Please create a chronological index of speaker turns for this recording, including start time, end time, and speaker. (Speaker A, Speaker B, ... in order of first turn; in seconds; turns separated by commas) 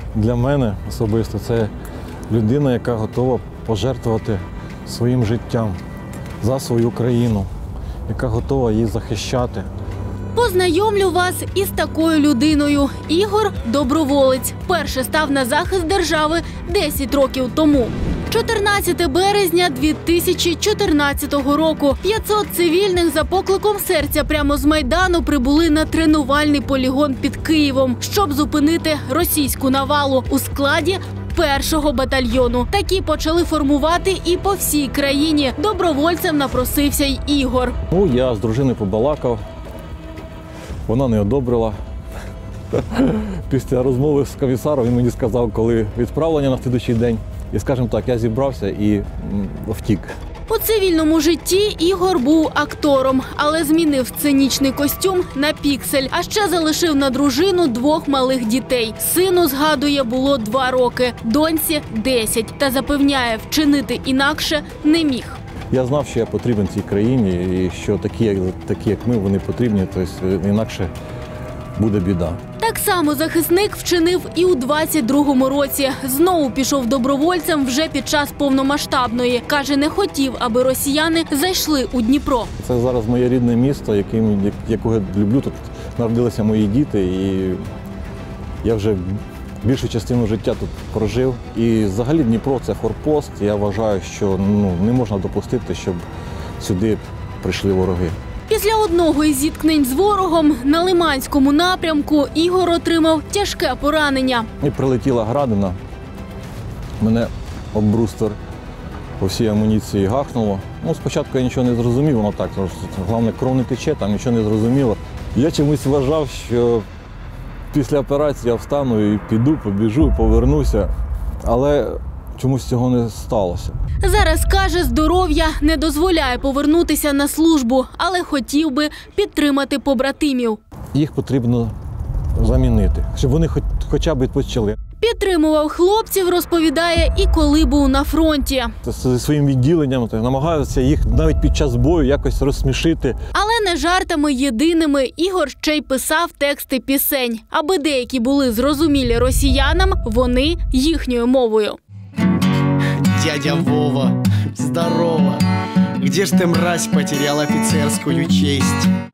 Speaker A: 0.1-1.7, Speaker A: 2.3-5.8, Speaker A: 6.4-7.5, Speaker A: 8.1-9.7, Speaker B: 10.3-37.8, Speaker A: 37.9-39.4, Speaker A: 40.9-41.8, Speaker A: 42.7-50.1, Speaker B: 50.5-65.4, Speaker A: 65.7-70.9, Speaker A: 71.8-72.4, Speaker B: 72.6-82.5, Speaker A: 82.6-87.7, Speaker A: 88.6-96.0, Speaker A: 96.6-98.2, Speaker B: 98.5-104.5, Speaker A: 104.6-105.8, Speaker A: 107.0-108.4, Speaker A: 109.2-116.9, Speaker A: 117.7-120.9, Speaker A: 121.4-123.8, Speaker B: 124.0-130.6, Speaker A: 130.9-131.7, Speaker A: 132.3-134.8, Speaker B: 135.0-138.7, Speaker A: 138.8-143.2, Speaker B: 143.3-151.8, Speaker C: 153.0-155.4, Speaker C: 155.9-158.9